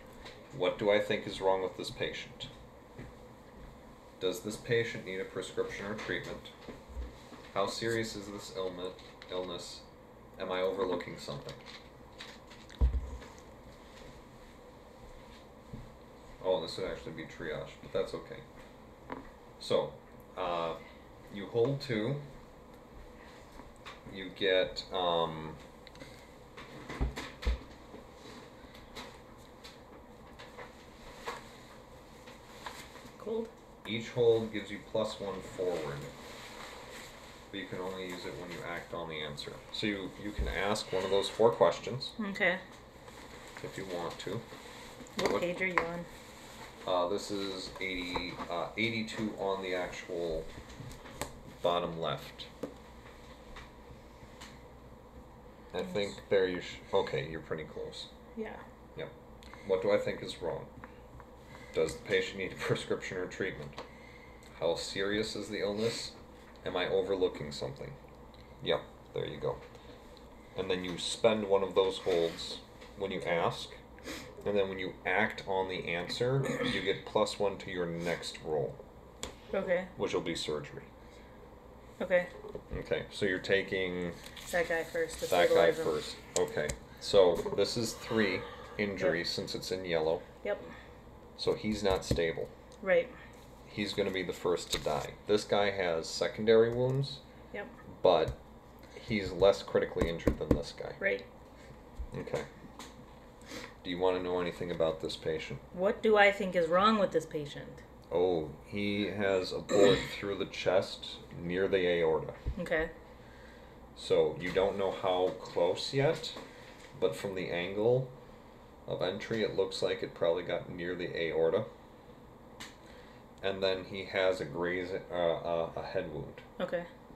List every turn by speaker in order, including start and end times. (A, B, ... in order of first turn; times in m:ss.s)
0:00.5-0:02.5 A
0:04.2-0:06.5 A
0:07.5-0:09.8 A
0:10.4-0:11.6 A
0:16.4-0:18.4 A
0:19.6-0:22.2 A
0:24.1-0:25.6 A
0:33.2-0:33.5 B
0:33.8-0:36.1 A
0:37.5-0:42.2 A
0:42.2-0:42.6 B
0:43.6-0:44.4 A
0:45.2-0:46.1 B
0:45.2-0:45.5 A
0:46.8-0:50.5 A
0:51.6-0:52.5 A
0:55.7-0:58.1 A
0:58.4-0:58.6 B
0:59.6-1:00.7 A
1:01.7-1:03.8 A
1:04.6-1:08.0 A
1:08.6-1:09.6 A
1:10.6-1:13.8 A
1:14.4-1:18.8 A
1:19.5-1:19.9 B
1:20.0-1:20.9 A
1:22.0-1:22.3 B
1:22.7-1:24.2 A
1:24.5-1:25.9 B
1:25.3-1:30.2 A
1:30.4-1:30.7 B
1:31.4-1:32.5 A
1:32.8-1:33.1 B
1:33.7-1:37.2 A
1:37.9-1:38.4 A
1:39.0-1:41.0 A
1:41.0-1:41.2 B
1:42.1-1:42.5 A
1:43.8-1:45.6 A
1:45.7-1:47.8 B
1:48.1-1:52.4 A
1:52.6-1:52.9 B
1:54.0-1:56.4 A
1:56.9-1:58.1 A
1:58.9-2:01.7 A
2:03.4-2:06.4 A
2:06.6-2:06.9 B